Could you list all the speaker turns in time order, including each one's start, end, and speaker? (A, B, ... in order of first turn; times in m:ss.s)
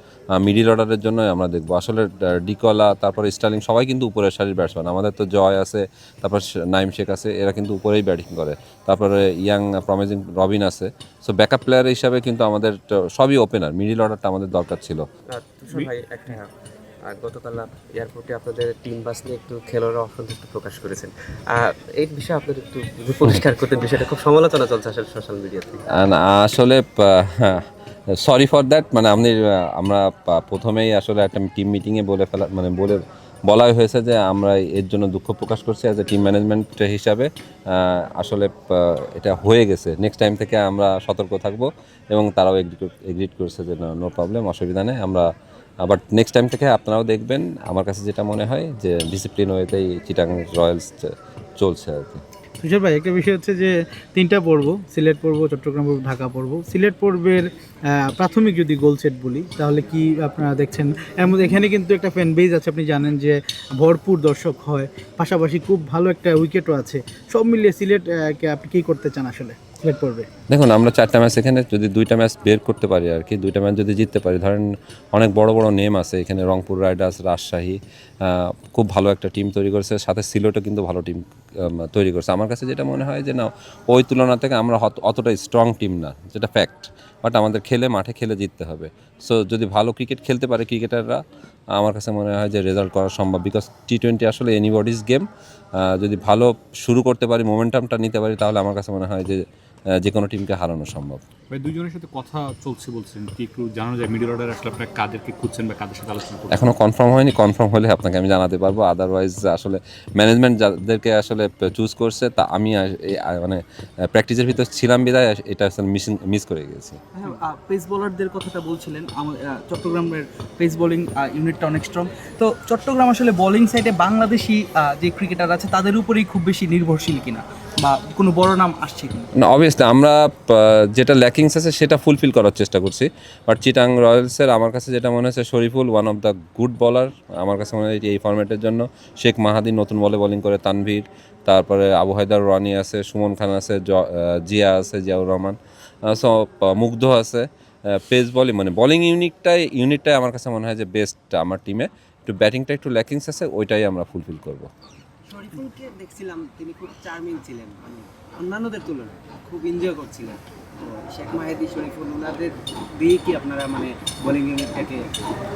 0:00.4-0:15.0 A
0:15.3-0:16.5 B
0:17.0-0:25.8 B
0:25.9-0:27.6 A
0:28.1-0:45.3 A
0:45.8-0:52.2 A
0:52.6-1:10.3 C
1:10.5-1:31.2 A
1:31.8-1:35.3 A
1:35.8-1:39.4 A
1:40.0-1:41.2 A
1:41.5-1:46.8 D
1:46.5-1:57.0 A
1:57.2-2:09.2 E
2:09.4-2:34.7 A
2:35.3-2:45.1 F